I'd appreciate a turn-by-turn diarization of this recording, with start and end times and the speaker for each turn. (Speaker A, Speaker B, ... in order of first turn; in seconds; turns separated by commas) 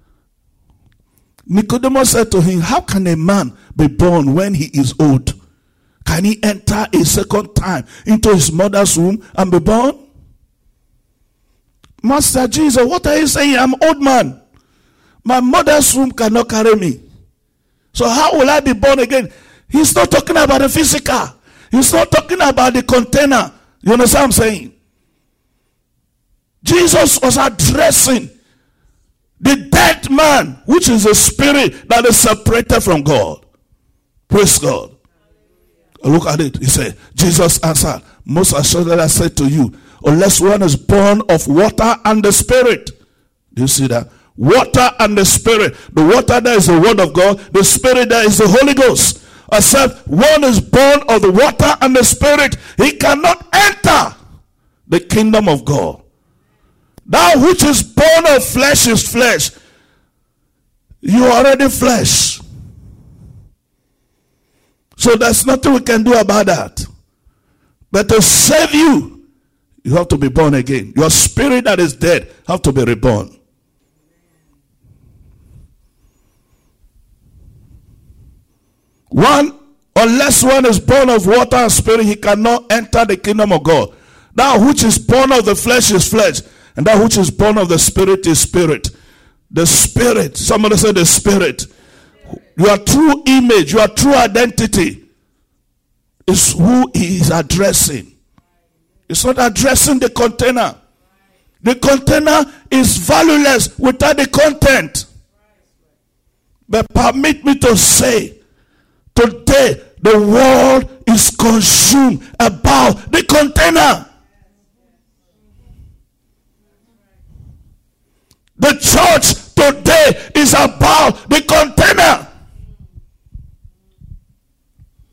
Speaker A: 1.5-5.4, Speaker A: 6.0-10.0, Speaker A: 12.0-14.4, Speaker A: 15.2-17.0, Speaker A: 17.9-24.7, Speaker A: 26.6-28.3, Speaker A: 29.4-33.4, Speaker A: 34.3-35.0, Speaker A: 36.0-43.0, Speaker A: 43.5-54.2, Speaker A: 54.9-56.0, Speaker A: 57.1-59.5, Speaker A: 61.0-62.4, Speaker A: 65.0-66.8, Speaker A: 67.9-69.2, Speaker A: 69.8-73.3, Speaker A: 79.1-88.9, Speaker A: 89.5-91.7, Speaker A: 92.3-95.0, Speaker A: 96.3-98.1, Speaker A: 99.1-100.8, Speaker A: 101.6-105.1, Speaker A: 106.7-108.4, Speaker A: 109.1-114.1, Speaker A: 118.6-122.3